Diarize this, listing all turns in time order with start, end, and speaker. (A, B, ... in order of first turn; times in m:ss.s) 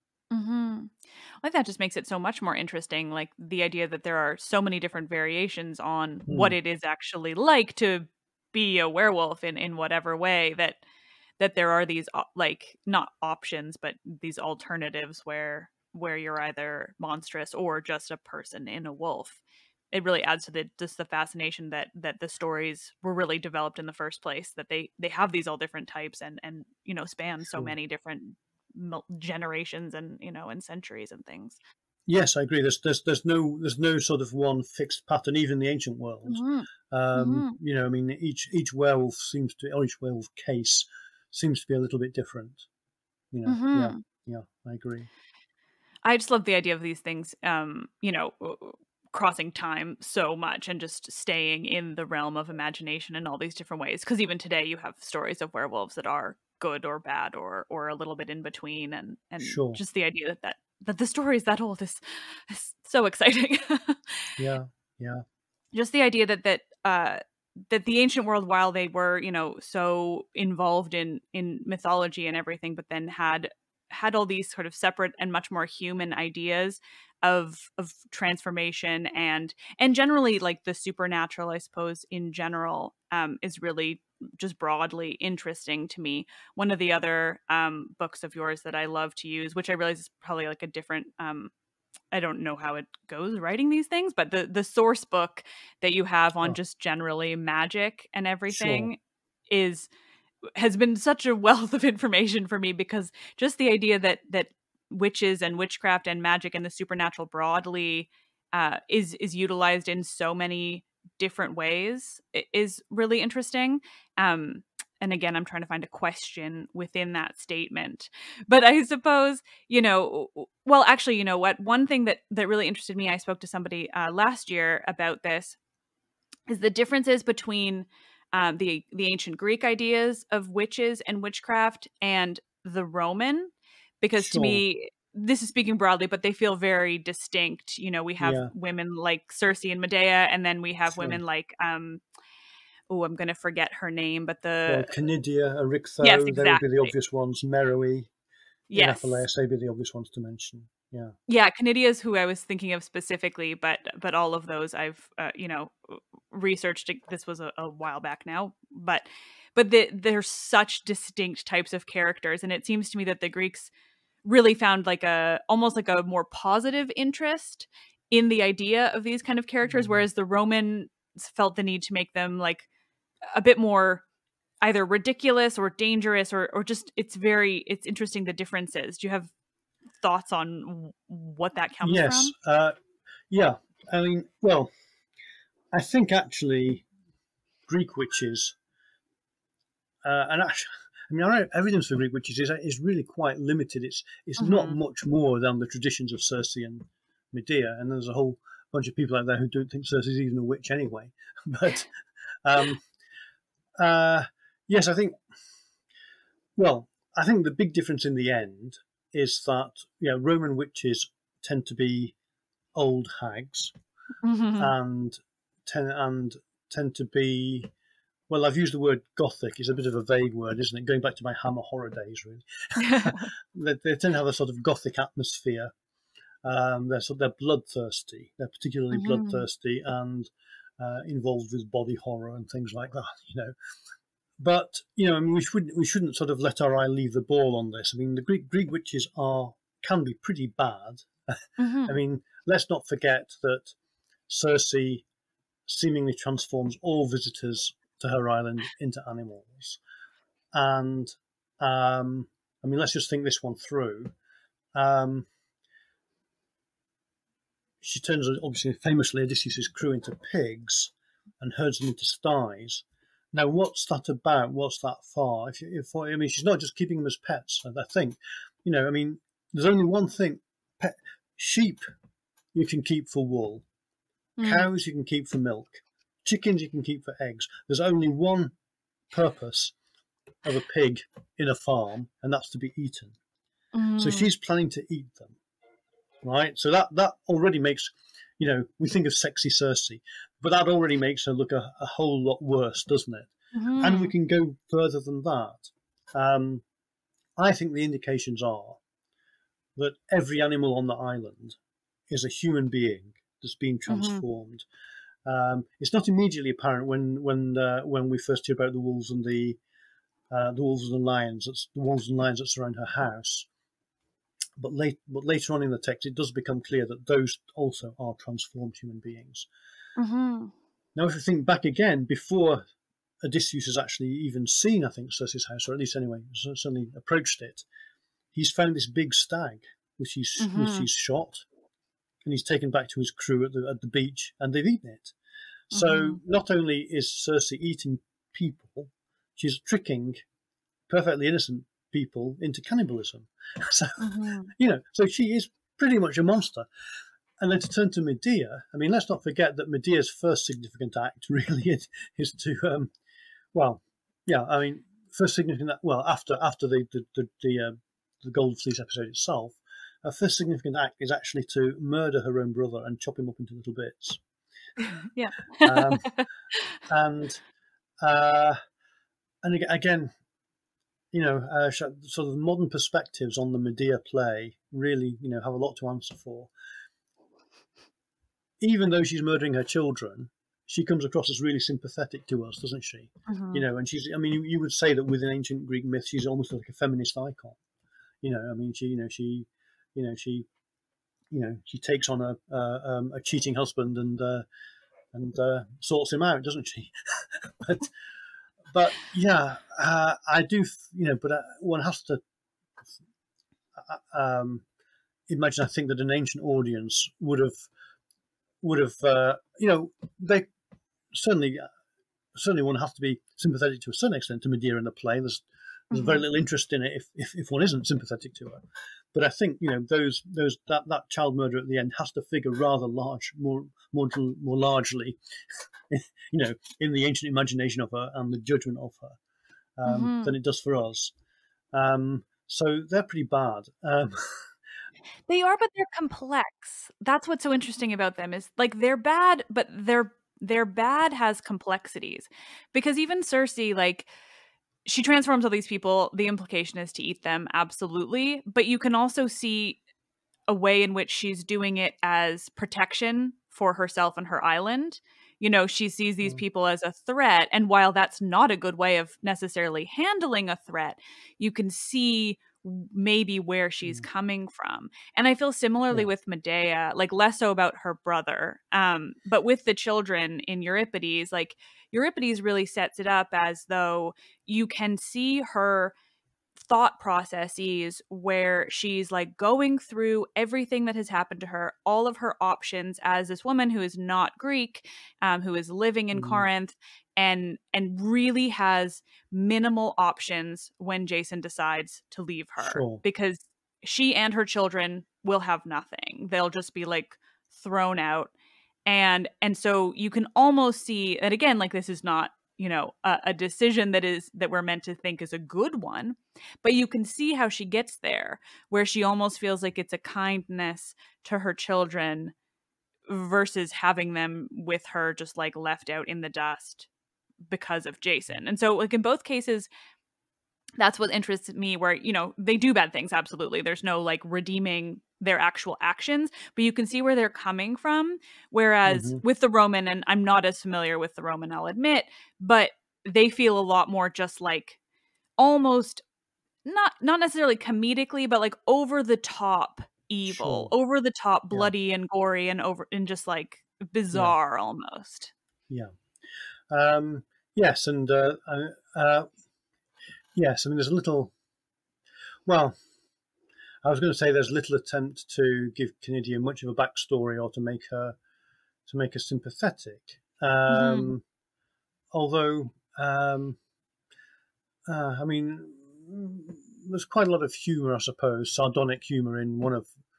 0:00.3-0:10.8 A
0:06.3-0:06.6 B
0:11.4-0:19.4 A
0:19.9-0:31.6 A
0:32.1-0:42.6 B
0:36.3-0:37.5 A
0:43.3-0:45.1 B
0:43.4-0:44.0 A
0:46.0-1:04.2 A
0:59.4-0:59.8 B
1:04.4-1:05.2 B
1:05.7-1:31.5 A
1:32.1-1:39.0 A
1:38.5-1:38.9 B
1:39.5-1:39.9 A
1:40.6-2:05.6 A
2:06.5-2:22.0 A
2:14.2-2:14.6 B
2:18.2-2:18.5 B
2:20.9-2:21.2 B
2:22.9-2:24.9 A
2:24.7-2:28.1 B
2:26.0-2:26.9 A
2:28.7-2:29.2 A
2:28.8-2:31.2 B
2:31.3-2:43.7 A
2:44.2-2:52.7 A
2:49.7-2:50.0 B
2:53.3-2:54.0 A
2:54.6-2:59.3 A
3:00.0-3:02.3 A
3:01.8-3:02.8 B
3:03.3-3:04.7 B
3:05.7-3:06.8 B
3:07.7-3:08.6 B
3:10.0-3:21.9 B
3:14.4-3:14.8 A
3:22.4-3:22.8 B
3:23.8-3:25.2 B
3:26.6-3:32.1 B
3:32.7-3:33.7 B
3:34.2-3:34.7 A
3:34.6-3:37.7 B
3:38.3-3:45.7 B
3:42.8-3:43.3 A
3:46.4-3:53.5 B
3:48.9-3:49.4 A
3:54.4-4:03.7 B
4:01.6-4:02.0 A
4:04.3-4:05.0 B
4:05.7-4:09.8 B
4:10.5-4:14.1 B
4:14.7-4:15.3 B
4:17.8-4:31.8 B
4:32.5-4:33.6 B
4:34.4-4:34.6 A
4:34.4-4:38.5 B
4:39.1-4:39.7 B
4:40.4-4:43.1 B
4:43.7-4:44.3 A
4:44.0-4:45.4 B
4:46.2-4:56.6 B
4:53.5-4:54.1 A
4:57.4-4:58.8 B
4:59.8-5:01.6 B
5:02.1-5:04.7 B
5:03.9-5:04.2 A
5:05.2-5:09.6 B
5:10.3-5:13.5 B
5:14.6-5:19.5 B
5:20.0-5:20.5 A
5:21.0-5:22.6 B
5:23.2-5:27.6 B
5:28.3-5:31.4 B
5:30.4-5:30.9 A
5:32.2-5:35.1 B
5:35.7-5:40.2 B
5:35.7-5:36.2 A
5:40.9-5:46.7 B
5:44.0-5:44.5 A
5:47.4-5:52.9 B
5:53.5-6:04.2 B
6:04.8-6:06.7 A
6:05.6-6:06.1 B
6:06.9-6:07.4 B
6:08.0-6:08.6 B
6:09.4-6:10.1 B
6:11.1-6:16.5 B
6:18.6-6:27.6 B
6:23.3-6:23.6 A
6:28.2-6:30.5 B
6:31.3-6:34.4 B
6:35.1-6:37.9 B
6:38.7-6:42.2 B
6:43.8-6:44.6 B
6:45.3-6:47.7 B
6:48.6-6:50.5 B
6:51.1-6:51.7 B
6:52.3-6:58.6 B
6:55.9-6:56.2 A
6:59.1-7:05.2 B
7:05.9-7:09.2 B
7:09.8-7:11.1 B
7:09.8-7:10.3 A
7:11.7-7:14.5 B
7:15.3-7:24.1 A
7:24.8-7:29.8 A
7:30.5-7:55.9 A
7:56.6-8:18.3 A
8:06.1-8:06.4 B
8:12.6-8:13.0 B
8:18.8-8:32.3 A
8:33.1-8:36.9 A
8:37.5-8:39.7 A
8:40.8-8:54.8 A
8:48.9-8:49.2 B
8:55.4-8:56.0 A
8:56.6-9:05.3 A
9:00.2-9:00.7 B
9:06.7-9:09.3 B
9:10.3-9:11.3 B
9:12.4-9:12.8 B
9:13.8-9:18.2 B
9:18.8-9:21.2 B
9:20.7-9:21.1 A
9:22.1-9:23.6 B
9:24.9-9:29.9 B